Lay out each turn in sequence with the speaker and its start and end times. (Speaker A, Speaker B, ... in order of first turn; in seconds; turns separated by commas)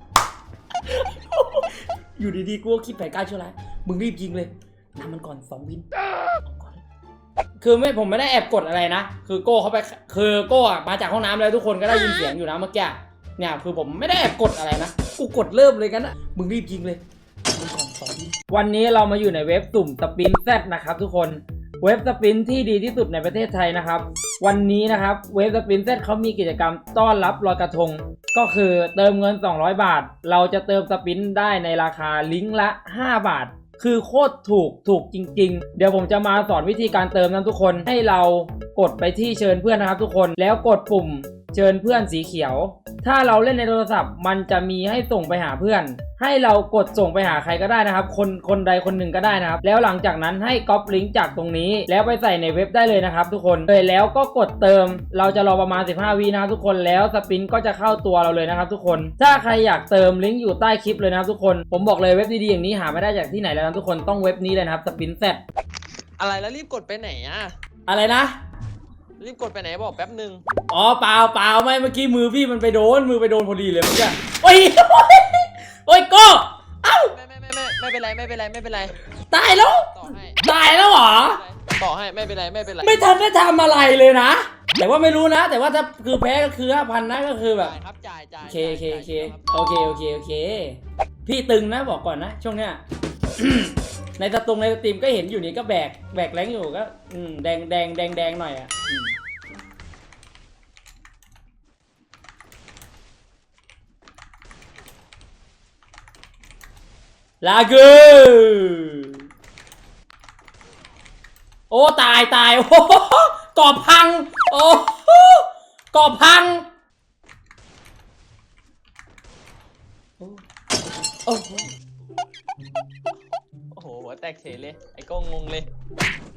Speaker A: 0.8-5.8, Speaker A: 6.4-6.8, Speaker A: 7.6-17.0, Speaker A: 17.5-65.4, Speaker B: 66.2-67.5, Speaker A: 67.9-68.4, Speaker B: 69.2-70.4, Speaker A: 70.7-77.1, Speaker B: 77.0-79.0, Speaker A: 79.3-81.4, Speaker B: 79.9-83.0, Speaker A: 82.8-87.7, Speaker B: 87.5-89.7, Speaker A: 88.4-92.8, Speaker A: 93.3-99.1, Speaker A: 107.4-109.2, Speaker A: 111.7-116.7, Speaker A: 121.3-121.7, Speaker B: 123.7-125.7